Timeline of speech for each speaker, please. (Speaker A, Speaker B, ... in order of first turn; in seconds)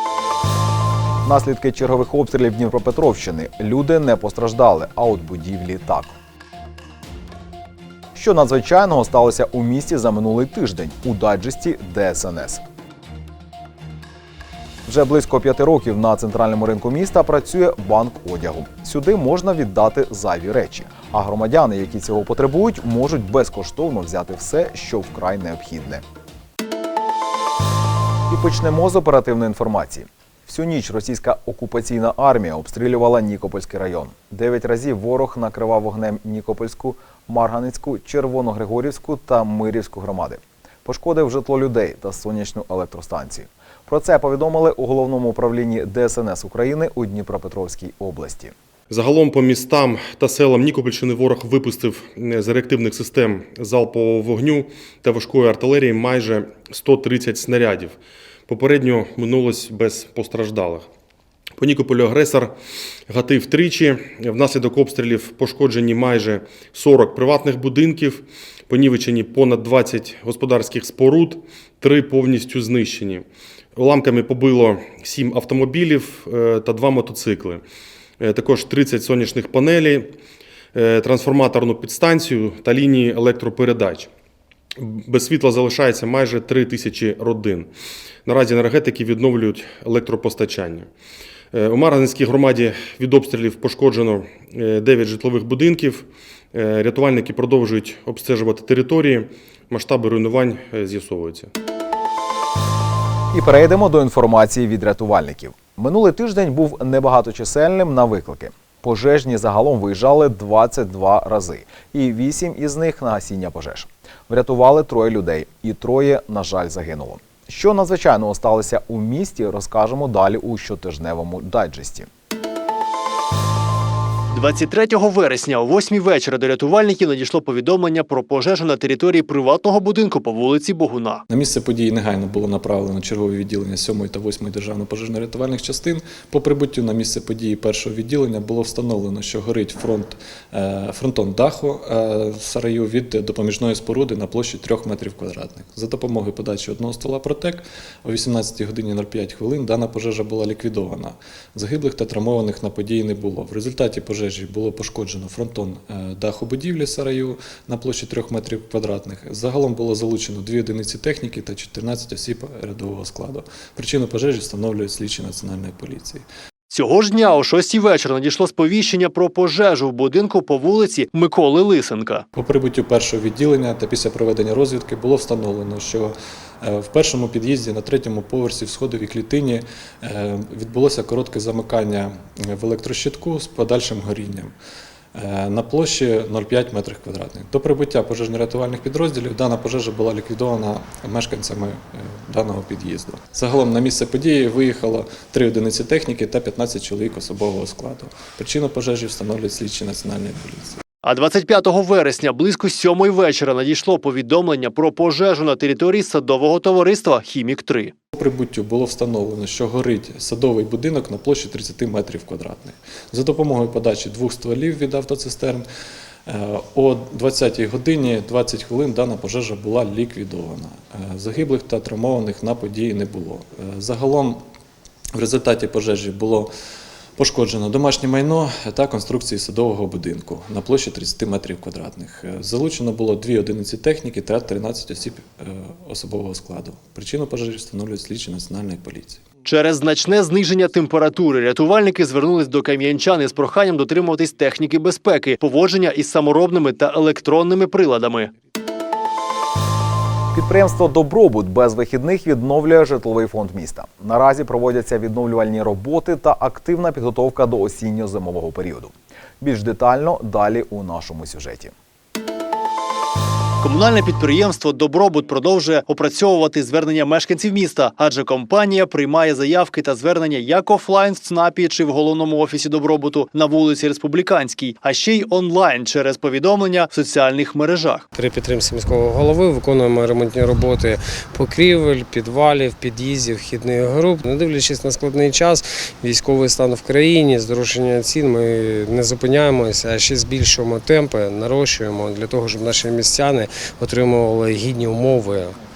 Speaker A: 1.2-6.2, 8.2-12.6, 14.9-26.0, 28.3-48.5, 103.3-122.1, 250.3-261.7
Speaker B: 48.9-58.0, 58.5-60.9, 61.6-62.5, 63.1-73.2, 73.8-77.6, 78.2-80.1, 80.7-84.1, 84.8-87.7, 88.3-90.9, 91.5-101.5
Speaker C: 124.3-131.2, 166.7-172.2, 201.0-207.9, 239.4-248.3, 263.6-278.0
Speaker D: 131.3-166.3, 172.3-184.5, 185.2-200.8, 208.1-215.7, 216.3-224.4, 225.2-226.5, 227.2-239.2
Speaker E: 278.1-295.6